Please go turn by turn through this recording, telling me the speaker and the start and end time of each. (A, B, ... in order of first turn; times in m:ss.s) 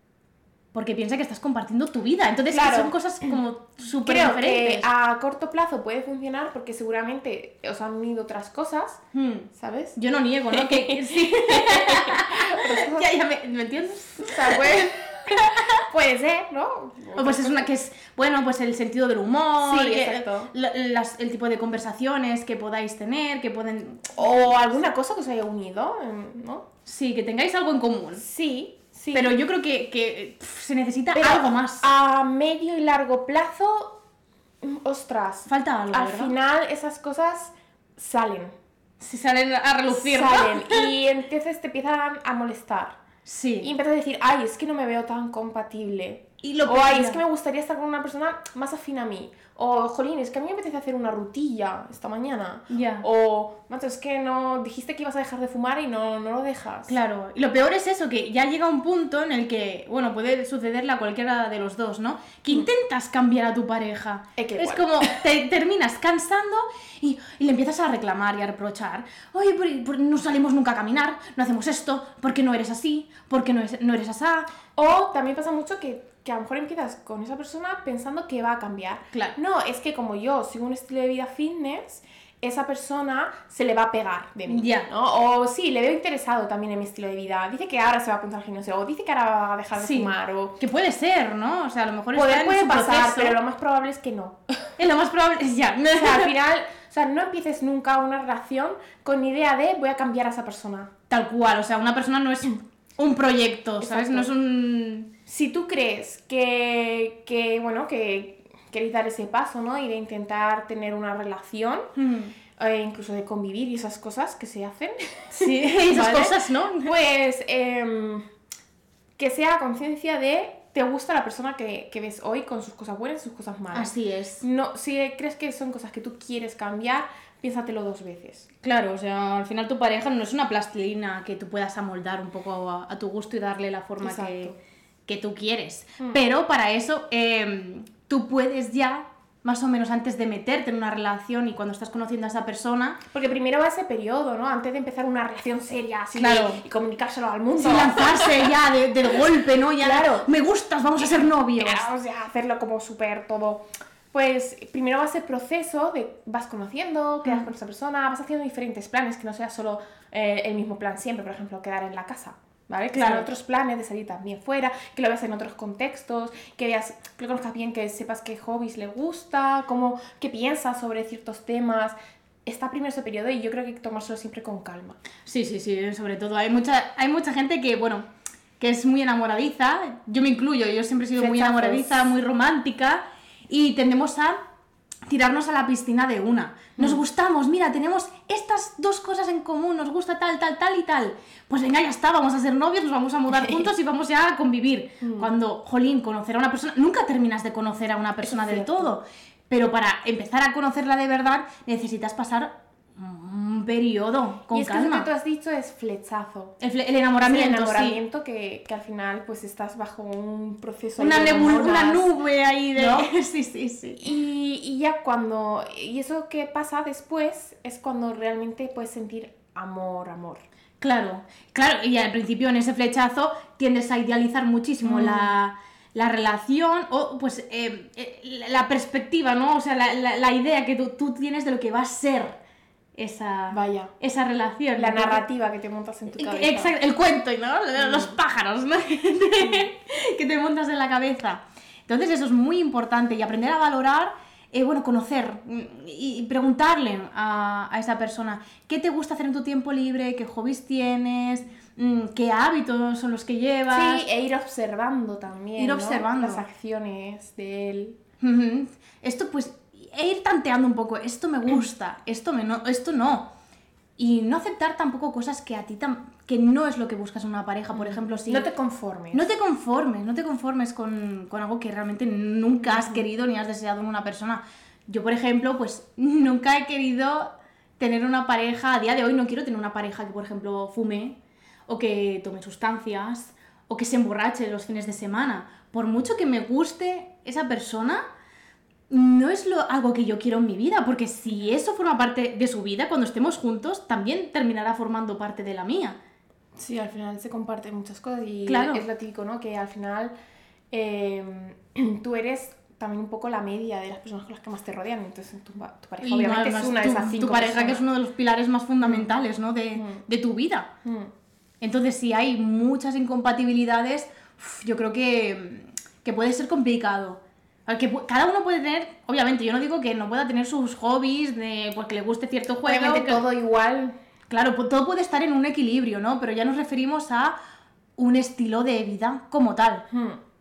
0:00.7-0:04.9 A
0:02.5-0:03.3 B
0:04.0-0:13.1 B
0:09.1-0:15.8 A
0:14.2-0:17.7 B
0:17.2-0:24.2 A
0:19.6-0:20.5 B
0:24.1-0:26.7 B
0:26.9-0:28.2 A
0:28.2-0:29.4 B
0:29.1-0:31.9 A
0:31.2-0:34.0 B
0:34.6-0:38.6 B
0:35.5-0:36.3 A
0:39.0-0:40.9 A
0:39.9-0:43.0 B
0:43.2-0:43.7 A
0:43.6-0:56.9 B
0:46.4-0:47.2 A
0:52.7-0:53.0 A
0:56.9-1:14.5 A
1:04.4-1:05.2 B
1:14.8-1:30.6 B
1:24.5-1:24.9 A
1:29.8-1:33.4 A
1:32.1-1:34.7 B
1:34.8-1:36.3 A
1:35.9-1:40.9 B
1:41.1-1:45.1 A
1:43.8-1:44.3 B
1:45.3-1:51.9 B
1:52.0-1:52.3 A
1:52.6-1:58.2 B
1:55.3-1:56.9 A
1:59.2-2:08.5 B
2:03.7-2:04.4 A
2:08.6-2:14.5 A
2:14.0-2:14.6 B
2:15.1-2:23.0 A
2:23.1-2:28.5 B
2:26.2-2:26.6 A
2:27.6-2:31.9 A
2:29.8-2:30.3 B
2:31.0-2:55.0 B
2:42.9-2:43.3 A
2:55.3-2:58.1 A
2:58.6-3:04.4 A
3:01.2-3:02.0 B
3:05.1-3:25.1 A
3:06.8-3:07.0 B
3:13.3-3:13.7 B
3:15.0-3:15.3 B
3:18.2-3:18.9 B
3:24.5-3:26.6 B
3:26.6-3:28.0 A
3:27.2-3:32.1 B
3:31.0-3:34.0 A
3:32.8-3:33.1 B
3:34.0-3:40.4 B
3:40.8-3:52.4 A
3:44.8-3:45.3 B
3:53.0-3:55.2 A
3:53.5-3:53.9 B
3:54.8-3:56.7 B
3:56.2-4:14.0 A
3:57.8-3:58.1 B
4:13.7-4:18.0 B
4:15.6-4:16.4 A
4:18.2-4:23.3 A
4:24.0-4:28.5 A
4:27.7-4:29.3 B
4:29.1-4:48.0 A
4:32.6-4:33.0 B
4:48.9-4:56.0 A
4:56.6-5:00.1 B
4:58.5-4:58.8 A
5:00.7-5:07.8 B
5:06.0-5:10.7 A
5:08.8-5:09.1 B
5:09.8-5:10.1 B
5:10.8-5:11.1 B
5:11.6-5:23.2 A
5:22.6-5:24.0 B
5:24.3-5:27.4 A
5:28.0-5:29.8 A
5:29.9-5:30.2 B